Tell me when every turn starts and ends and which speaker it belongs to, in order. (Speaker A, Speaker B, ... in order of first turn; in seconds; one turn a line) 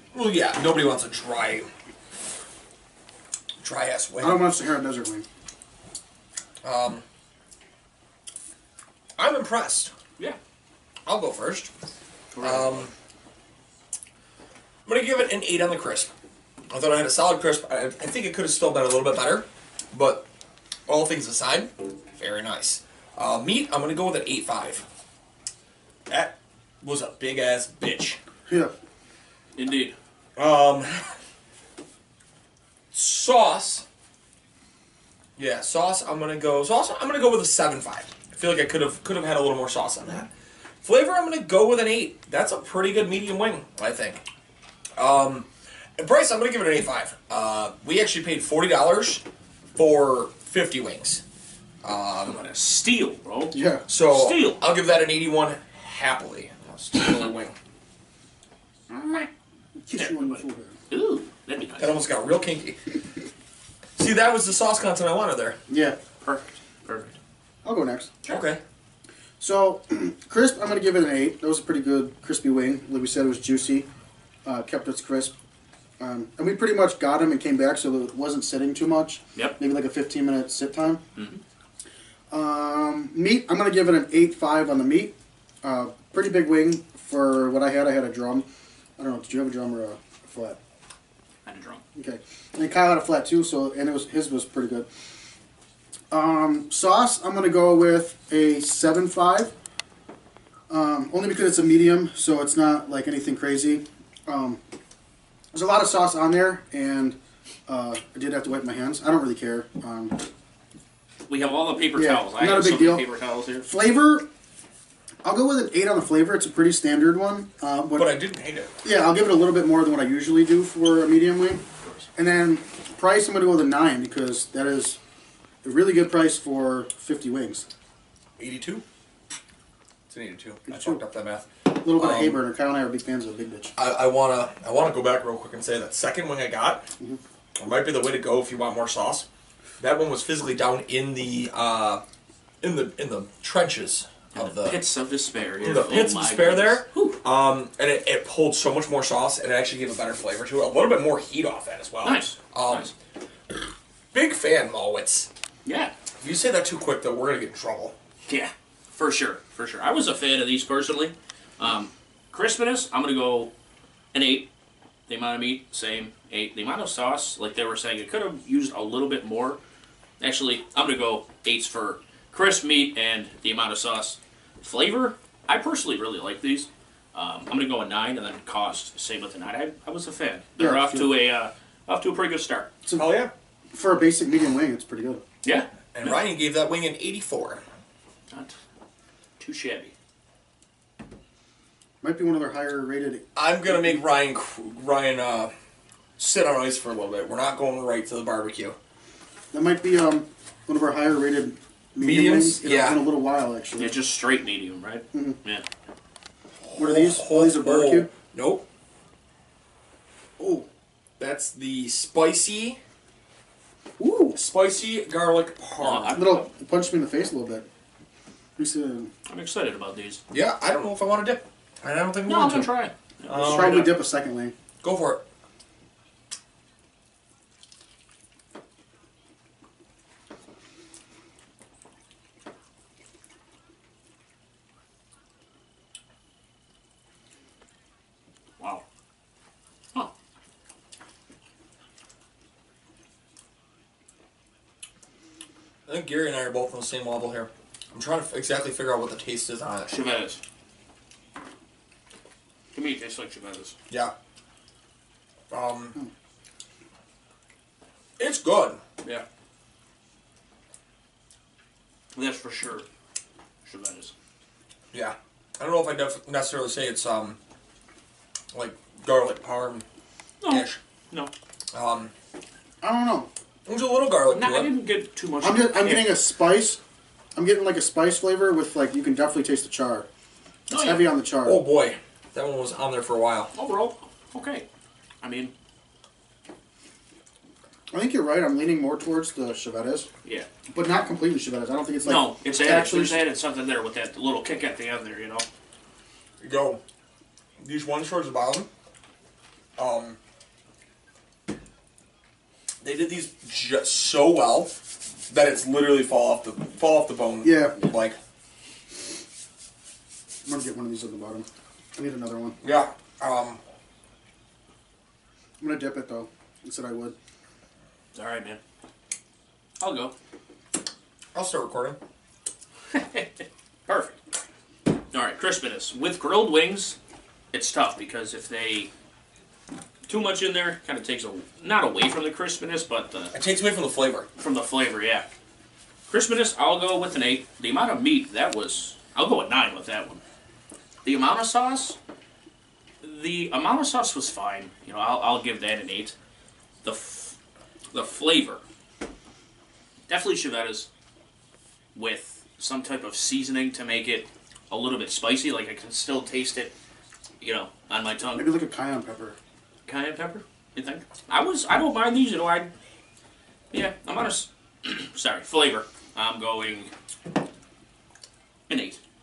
Speaker A: 0.1-1.7
Speaker A: 3.6-4.4
Speaker B: 4.2-5.2
Speaker A: 6.6-7.0
Speaker A: 9.2-9.9
Speaker A: 11.1-11.7
Speaker C: 12.3-12.9
Speaker A: 12.4-12.9
Speaker A: 14.8-16.1
Speaker A: 16.7-20.3
Speaker A: 20.9-24.9
Speaker A: 26.1-28.2
Speaker B: 28.5-28.7
Speaker C: 29.6-29.9
Speaker A: 30.4-31.1
Speaker A: 32.9-33.9
Speaker A: 35.4-40.3
Speaker A: 40.8-44.2
Speaker A: 45.0-45.5
Speaker A: 46.0-49.2
Speaker A: 49.7-51.2
Speaker A: 51.8-52.4
Speaker C: 52.2-54.6
Speaker B: 53.5-53.8
Speaker A: 53.9-57.5
Speaker C: 58.9-59.3
Speaker B: 59.8-60.7
Speaker C: 60.0-62.0
Speaker A: 61.8-62.8
Speaker A: 64.0-65.6
Speaker B: 65.7-66.0
Speaker C: 66.2-67.2
Speaker B: 67.6-68.1
Speaker A: 68.3-68.6
Speaker B: 69.4-73.9
Speaker B: 74.4-75.3
Speaker B: 76.0-81.0
Speaker C: 81.2-81.4
Speaker B: 82.3-88.5
Speaker B: 89.0-90.6
Speaker C: 91.4-91.8
Speaker B: 92.0-94.9
Speaker B: 96.1-99.5
Speaker B: 100.7-104.6
Speaker B: 105.5-110.2
Speaker C: 111.3-113.7
Speaker B: 111.9-113.0
Speaker B: 113.6-114.3
Speaker B: 115.2-118.1
Speaker A: 117.9-118.7
Speaker B: 118.8-121.6
Speaker B: 122.2-125.0
Speaker B: 125.6-127.7
Speaker A: 128.4-128.8
Speaker A: 130.1-132.4
Speaker B: 130.7-131.0
Speaker B: 131.7-133.7
Speaker A: 133.8-136.9
Speaker A: 137.6-139.3
Speaker A: 139.8-142.0
Speaker A: 142.6-144.8
Speaker C: 144.3-147.2
Speaker A: 145.6-152.9
Speaker C: 152.0-152.9
Speaker A: 154.1-155.3
Speaker C: 155.6-155.9
Speaker A: 156.2-157.9
Speaker C: 158.2-163.5
Speaker C: 164.1-164.5
Speaker C: 165.1-169.6
Speaker C: 170.2-182.7
Speaker B: 180.6-181.1
Speaker B: 182.8-183.2
Speaker A: 182.9-183.3
Speaker B: 183.7-185.2
Speaker C: 185.4-186.2
Speaker A: 185.9-187.6
Speaker C: 189.4-189.9
Speaker B: 192.0-193.9
Speaker A: 193.3-195.5
Speaker A: 196.2-198.8
Speaker B: 199.5-204.0
Speaker A: 202.0-203.0
Speaker C: 203.8-205.6
Speaker A: 206.6-208.6
Speaker B: 206.8-208.1
Speaker B: 210.4-210.7
Speaker A: 211.2-212.8
Speaker B: 214.0-214.4
Speaker A: 214.3-216.2
Speaker C: 215.8-216.4
Speaker B: 216.1-217.7
Speaker B: 218.6-219.1
Speaker C: 219.3-220.2
Speaker A: 220.3-222.7
Speaker C: 222.2-223.9
Speaker A: 223.3-223.9
Speaker B: 223.3-224.5
Speaker A: 224.8-225.2
Speaker A: 245.9-249.9
Speaker C: 249.9-250.4
Speaker C: 252.7-253.7
Speaker A: 255.5-256.0
Speaker A: 258.2-258.8
Speaker C: 262.1-262.9
Speaker C: 263.6-264.1
Speaker A: 264.9-267.4
Speaker A: 268.5-269.8
Speaker C: 270.4-271.3
Speaker A: 270.5-270.8
Speaker A: 271.7-272.1
Speaker B: 272.8-273.3
Speaker A: 273.6-274.7
Speaker C: 274.3-276.2
Speaker B: 275.4-276.8
Speaker B: 277.4-280.1
Speaker C: 280.7-281.1
Speaker B: 280.7-281.6
Speaker A: 281.4-283.5
Speaker C: 283.5-284.6
Speaker C: 285.2-285.5
Speaker B: 287.9-290.1
Speaker B: 290.7-293.2
Speaker C: 292.0-295.4
Speaker A: 296.4-296.8
Speaker A: 297.6-298.7
Speaker A: 299.8-300.2
Speaker A: 302.8-304.8
Speaker A: 305.3-308.2
Speaker B: 307.4-307.8
Speaker B: 310.4-312.6
Speaker A: 312.6-313.6
Speaker B: 315.6-317.1
Speaker C: 318.1-318.6
Speaker C: 319.8-320.1
Speaker A: 321.3-322.0
Speaker C: 322.9-324.2
Speaker C: 325.1-327.0
Speaker C: 327.5-328.9
Speaker C: 330.1-333.3
Speaker A: 333.3-334.3
Speaker C: 334.4-335.2
Speaker C: 336.1-340.2
Speaker C: 341.0-342.0
Speaker C: 343.0-346.1
Speaker C: 346.8-347.4
Speaker C: 347.9-348.6
Speaker C: 350.1-350.9
Speaker C: 351.9-356.7
Speaker C: 357.4-358.5
Speaker B: 358.4-359.4
Speaker C: 359.9-362.7
Speaker C: 363.7-366.9
Speaker C: 368.7-369.0